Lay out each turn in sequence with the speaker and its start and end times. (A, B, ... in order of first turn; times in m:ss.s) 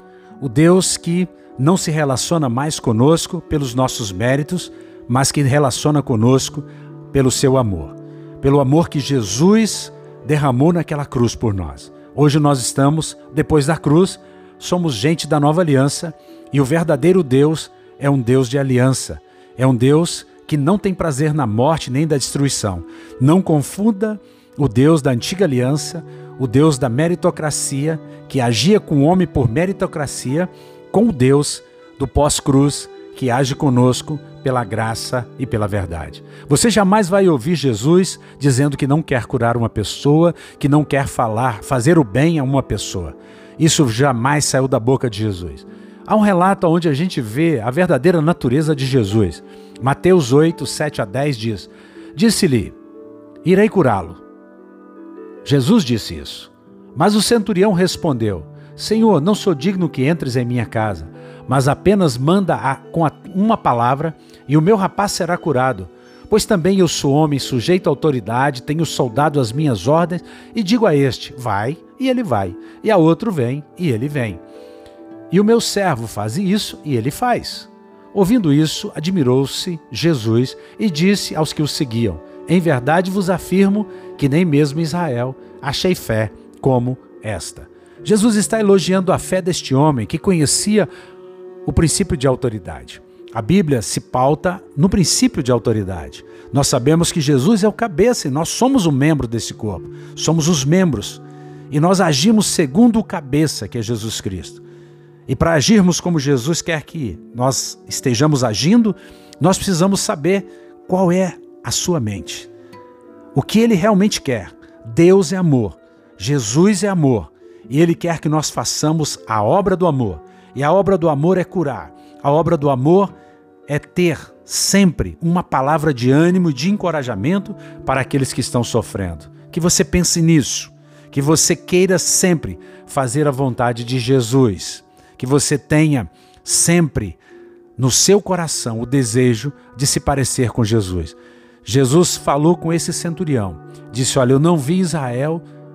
0:00.4-0:52.8 A
0:53.4-0:54.2 A
0:55.4-1:14.4 A
1:15.3-1:30.9 A
1:31.6-1:44.6 A
1:45.3-1:52.5 A
1:53.3-2:03.1 A
2:03.7-2:17.2 A
2:17.8-2:25.4 A